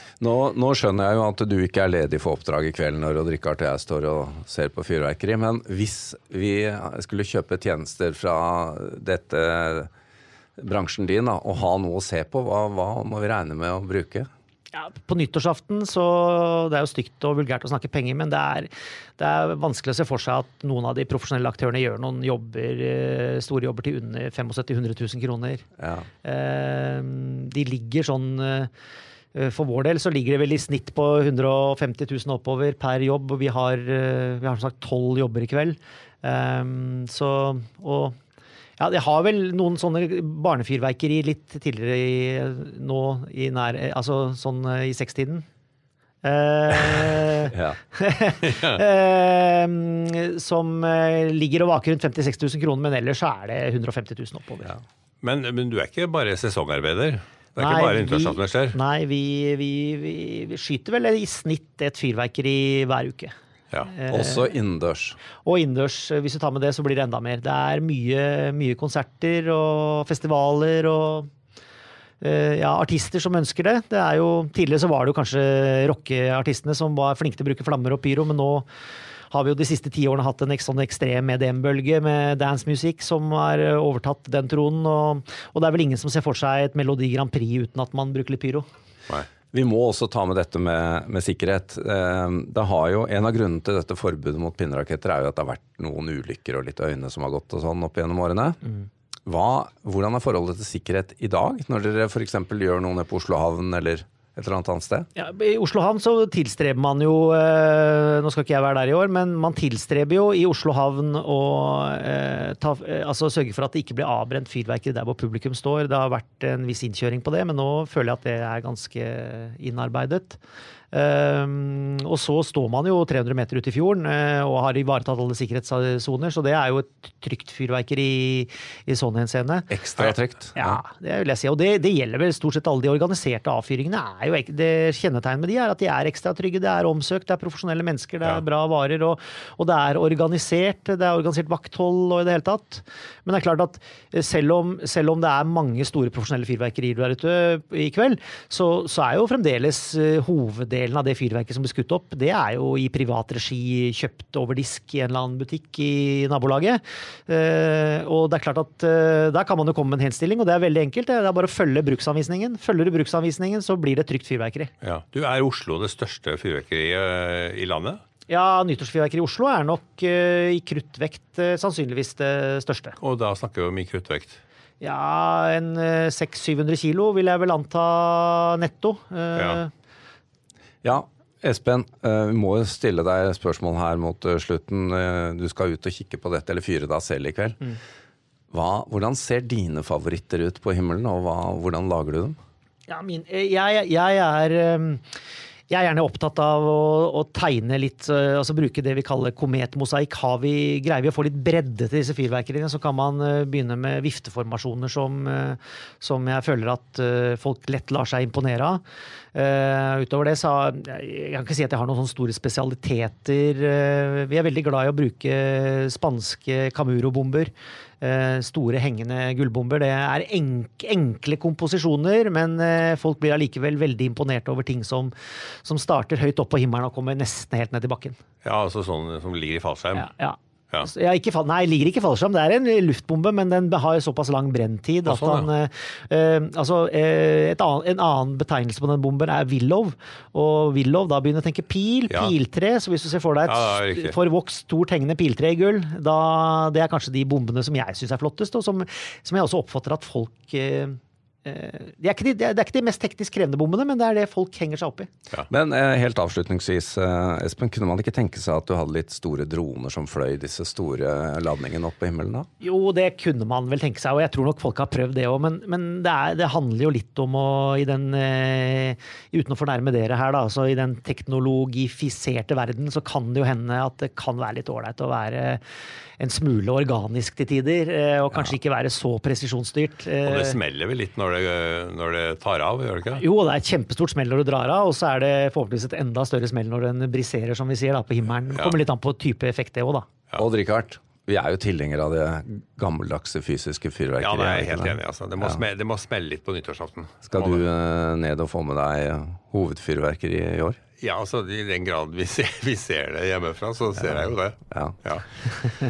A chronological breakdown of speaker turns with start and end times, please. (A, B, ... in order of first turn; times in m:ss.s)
0:00.2-0:09.9 A
0:10.6-0:14.3 A
0:14.7-0:25.6 B
0:25.8-0:26.1 A
0:26.2-0:28.7 B
0:29.3-0:38.1 B
0:38.8-0:45.4 B
0:46.2-0:54.7 B
0:47.5-0:47.8 A
0:48.4-0:48.8 C
0:55.2-0:58.8 C
0:57.6-1:03.3 B
1:03.8-1:04.5 B
1:04.1-1:05.2 A
1:05.4-1:11.3 B
1:12.2-1:18.7 B
1:19.3-1:28.6 B
1:29.5-1:38.6 A
1:39.2-1:45.1 A
1:45.2-2:00.4 B
2:00.9-2:09.7 B
2:09.7-2:10.8 A
2:10.5-2:44.7 B
2:44.8-2:48.0 C
2:48.3-2:53.0 B
2:53.0-2:54.4 C
2:54.8-2:59.7 B
2:59.4-2:59.6 C
3:00.8-3:07.6 A
3:08.5-3:12.4 A
3:12.9-3:15.0 B
3:15.7-3:28.8 B
3:29.3-3:48.2 B
3:48.4-3:50.1 C
3:49.9-4:15.1 B
3:55.0-3:55.5 C
4:02.1-4:02.3 C
4:03.4-4:04.1 C
4:15.5-4:22.5 A
4:22.6-4:35.6 B
4:36.2-4:40.6 B
4:40.2-4:43.2 C
4:43.2-4:50.0 B
4:50.4-4:55.6 A
4:54.2-4:57.6 C
4:57.3-5:00.8 A
5:01.0-5:05.3 C
5:04.7-5:05.0 A